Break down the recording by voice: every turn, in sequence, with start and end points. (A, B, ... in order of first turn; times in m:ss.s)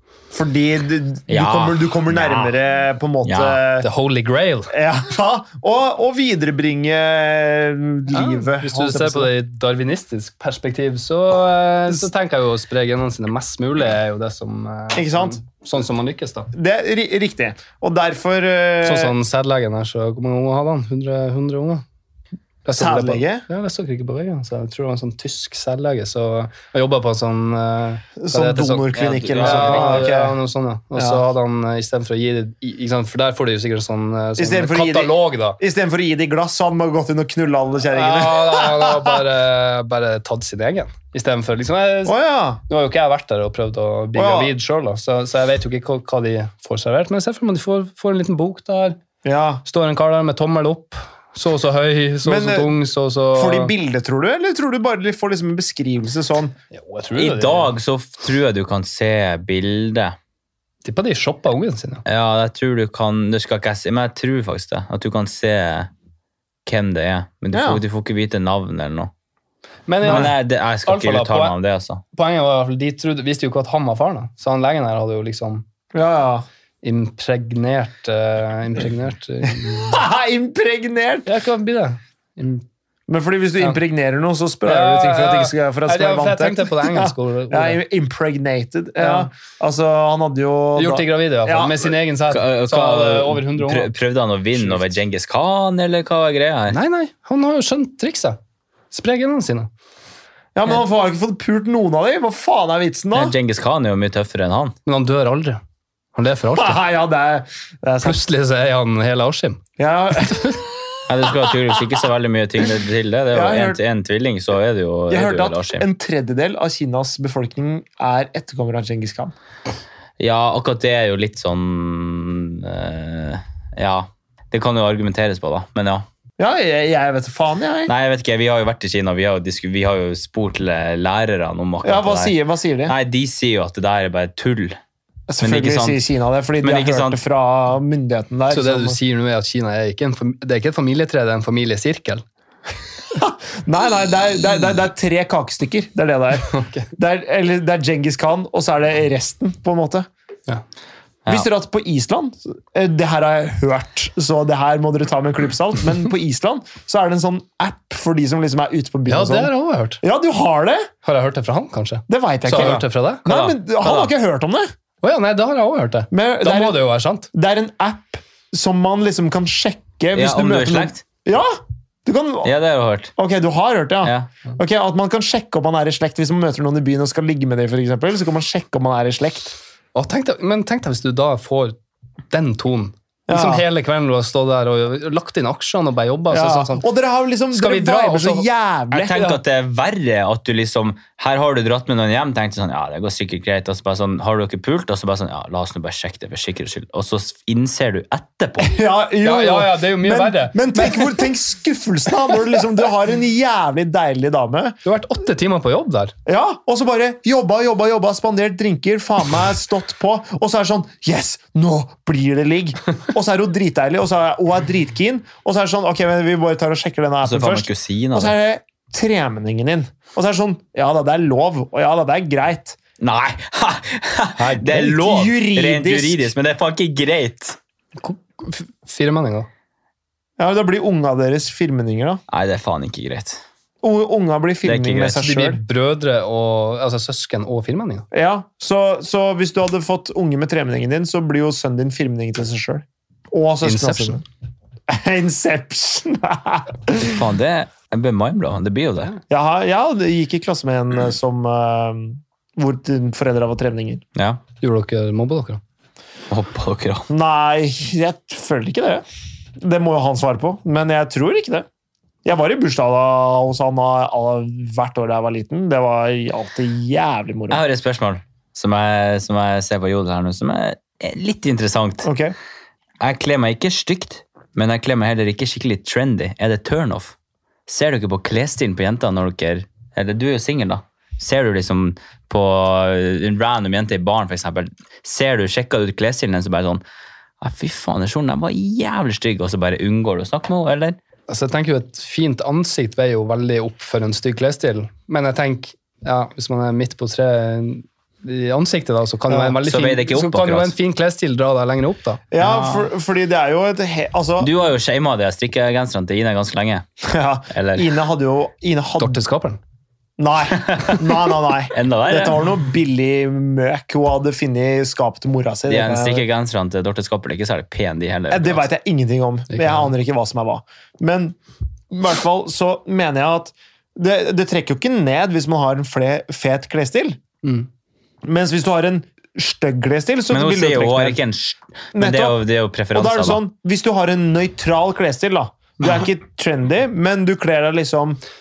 0:00.3-0:03.9 A
0:01.3-0:02.6 B
0:03.2-0:03.6 B
0:03.8-0:04.7 C
0:04.7-0:09.3 A
0:08.1-0:16.5 C
0:14.9-0:15.4 A
0:16.5-0:19.1 A
0:18.8-0:21.8 C
0:22.6-0:35.6 C
0:22.8-0:23.4 A
0:28.2-0:30.4 A
0:28.9-0:30.1 B
0:31.0-0:31.2 A
0:34.4-0:39.2 A
0:37.9-0:42.2 C
0:42.1-0:42.6 A
0:42.7-0:49.0 C
0:44.1-0:44.5 A
0:49.2-0:49.6 A
0:49.6-0:53.7 C
0:52.2-0:52.8 A
0:53.3-0:56.6 A
0:56.7-0:57.7 C
0:57.2-1:00.2 B
1:00.8-1:02.0 C
1:02.1-1:05.9 B
1:06.7-1:09.1 B
1:07.5-1:07.8 A
1:09.9-1:11.6 C
1:10.0-1:10.3 A
1:10.0-1:12.0 B
1:12.1-1:15.6 C
1:15.9-1:16.4 A
1:16.8-1:20.0 C
1:19.6-1:21.3 A
1:21.3-1:22.6 C
1:23.1-1:31.9 A
1:24.6-1:27.8 C
1:29.0-1:29.3 C
1:30.8-1:33.9 C
1:32.3-1:36.8 B
1:34.6-1:34.9 C
1:36.7-1:38.4 C
1:38.9-1:39.7 C
1:40.6-1:43.4 A
1:43.1-1:44.8 B
1:44.9-1:45.6 C
1:46.2-1:46.8 C
1:46.5-1:48.2 A
1:48.0-1:49.6 C
1:49.8-1:51.8 A
1:50.2-1:50.6 C
1:51.1-1:55.8 B
1:53.3-1:53.8 A
1:55.1-1:59.3 A
2:00.2-2:06.0 B
2:06.4-2:07.9 A
2:07.9-2:12.4 B
2:11.8-2:13.0 A
2:12.9-2:14.8 B
2:15.3-2:19.0 A
2:15.4-2:16.0 B
2:16.6-2:17.2 B
2:18.5-2:22.2 C
2:23.2-2:30.1 A
2:26.5-2:26.9 C
2:31.3-2:40.9 A
2:39.1-2:40.0 C
2:41.0-2:43.3 C
2:42.1-2:44.7 A
2:43.3-2:44.1 B
2:45.0-2:47.3 C
2:46.1-2:52.5 A
2:50.1-2:51.0 B
2:52.4-2:53.1 B
2:53.2-2:59.6 A
2:54.0-2:54.3 B
3:00.0-3:01.8 C
3:02.3-3:06.8 C
3:03.3-3:03.6 A
3:06.3-3:09.3 A
3:07.5-3:08.5 C
3:08.9-3:18.7 B
3:18.6-3:24.8 A
3:19.2-3:21.2 C
3:24.8-3:26.1 C
3:26.2-3:42.8 A
3:37.2-3:38.4 B
3:43.0-3:47.6 B
3:44.6-3:46.3 A
3:48.0-3:49.5 C
3:50.4-3:52.2 A
3:52.3-3:53.4 B
3:53.8-3:55.6 A
3:54.6-3:55.2 B
3:55.2-3:58.1 C
3:58.1-4:04.2 A
4:03.6-4:04.2 C
4:04.9-4:07.2 A
4:07.0-4:09.2 B
4:09.3-4:14.0 A
4:14.2-4:14.4 B
4:14.6-4:15.6 C
4:16.3-4:17.1 B
4:17.1-4:19.0 A
4:19.6-4:21.7 A
4:22.2-4:27.6 A
4:27.5-4:32.1 B
4:32.0-4:32.3 A
4:33.0-4:37.2 B
4:37.7-4:46.8 B
4:47.4-4:51.0 B
4:51.3-5:02.2 C
4:59.6-5:00.7 B
5:02.3-5:04.5 A
5:02.4-5:02.9 B
5:04.4-5:06.8 B
5:07.0-5:09.2 A
5:07.5-5:07.9 B
5:09.0-5:09.6 C
5:10.2-5:16.3 A
5:10.5-5:11.2 B
5:11.7-5:12.5 B
5:15.7-5:18.7 B
5:18.3-5:21.4 A
5:19.5-5:19.9 C
5:21.9-5:27.2 A
5:27.4-5:27.7 C
5:28.2-5:31.2 A
5:30.3-5:33.4 B
5:32.0-5:32.4 A
5:32.9-5:38.2 A